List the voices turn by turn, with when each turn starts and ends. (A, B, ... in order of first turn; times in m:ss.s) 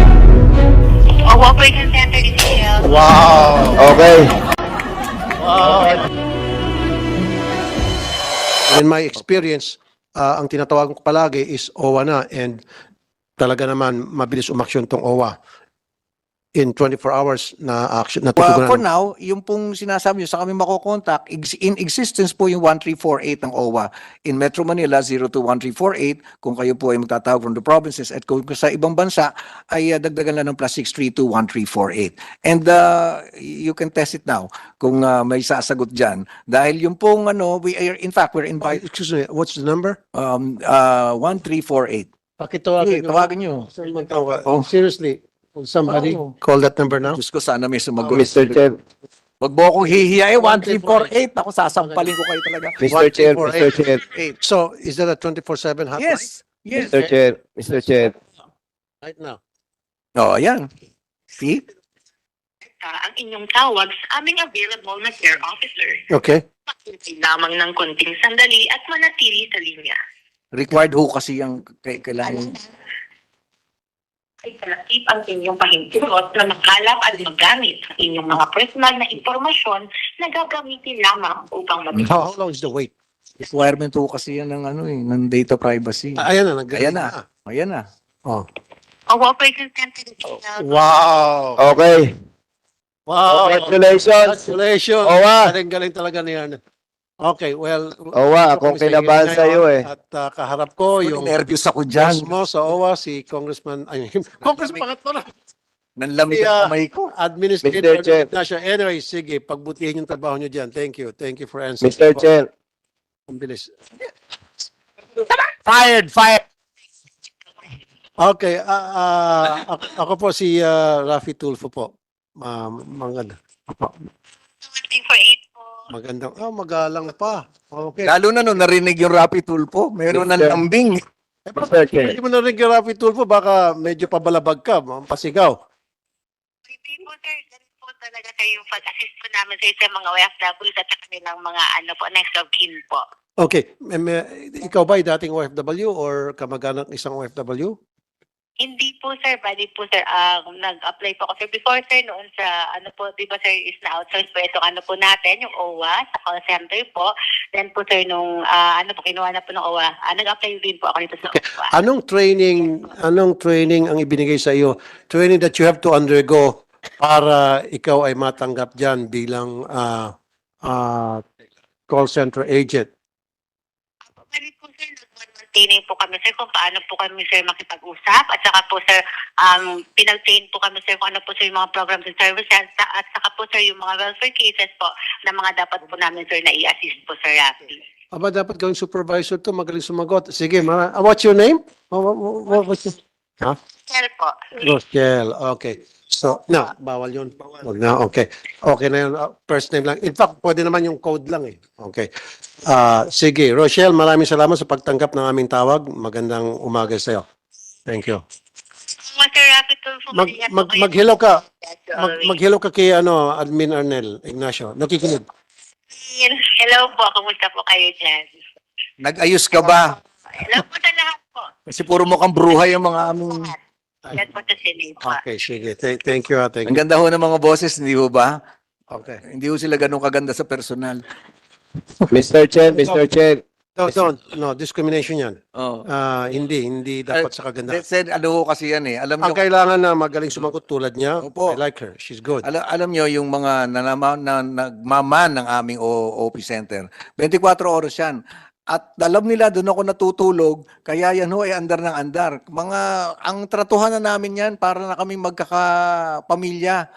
0:01.3-0:02.8 A
0:02.8-0:03.9 B
0:03.8-0:04.3 C
0:05.4-0:06.1 B
0:08.7-0:12.6 B
0:13.4-0:15.3 B
0:16.6-0:18.8 B
0:18.4-0:38.8 D
0:38.6-0:40.0 B
0:40.2-0:42.1 D
0:42.4-0:47.2 B
0:42.8-0:43.7 D
0:45.9-0:46.3 D
0:47.1-0:48.4 D
0:48.1-0:48.8 C
0:49.4-0:52.8 D
0:50.4-0:51.1 B
0:51.8-0:52.1 B
0:52.8-0:54.0 C
0:52.9-0:53.8 B
0:54.0-0:54.4 D
0:54.4-0:57.1 B
0:56.0-0:57.0 D
0:56.9-0:58.1 C
0:59.0-0:59.4 B
1:00.2-1:00.7 D
1:01.4-1:01.6 D
1:02.7-1:06.1 A
1:06.1-1:06.4 B
1:06.7-1:10.0 A
1:10.5-1:12.6 D
1:12.2-1:12.6 A
1:14.4-1:22.2 A
1:22.0-1:22.9 B
1:23.4-1:27.8 D
1:26.2-1:27.2 B
1:29.1-1:30.7 A
1:30.6-1:31.6 B
1:31.6-1:32.2 C
1:33.1-1:36.6 B
1:33.3-1:34.5 C
1:35.0-1:35.5 C
1:37.2-1:41.4 B
1:38.1-1:39.9 C
1:41.0-1:42.3 D
1:42.0-1:45.2 B
1:44.4-1:44.8 D
1:46.0-1:47.1 D
1:46.3-1:52.3 B
1:47.6-1:48.3 C
1:51.8-1:52.5 C
1:53.3-1:53.7 B
1:55.7-1:56.3 B
1:58.2-2:04.0 B
2:04.7-2:05.7 A
2:05.9-2:08.1 B
2:08.0-2:11.0 D
2:10.1-2:10.6 C
2:11.5-2:15.5 B
2:11.6-2:12.2 C
2:16.7-2:23.0 A
2:23.4-2:27.8 B
2:28.6-2:41.7 A
2:41.3-2:50.1 B
2:50.7-2:51.2 B
2:51.9-2:52.9 B
2:54.2-3:07.8 A
3:08.1-3:13.6 B
3:13.9-3:14.5 A
3:14.6-3:22.1 B
3:22.7-3:27.2 B
3:27.9-3:28.2 B
3:29.1-3:31.0 A
3:30.1-3:31.4 B
3:31.6-3:32.3 A
3:32.0-3:35.2 B
3:36.0-3:38.4 A
3:39.0-3:40.0 D
3:40.4-3:41.5 A
3:41.7-3:43.5 D
3:43.3-3:43.6 A
3:44.1-3:45.2 A
3:45.0-3:46.8 B
3:46.7-3:48.3 D
3:48.9-3:49.2 B
3:49.3-3:51.0 D
3:52.1-3:53.4 C
3:52.7-3:53.0 B
3:53.8-3:55.4 B
3:55.6-3:55.8 D
3:55.9-3:57.8 B
3:57.1-3:59.4 D
3:59.2-4:02.4 B
4:01.2-4:01.6 D
4:02.4-4:08.2 D
4:08.7-4:15.7 D
4:16.3-4:16.8 D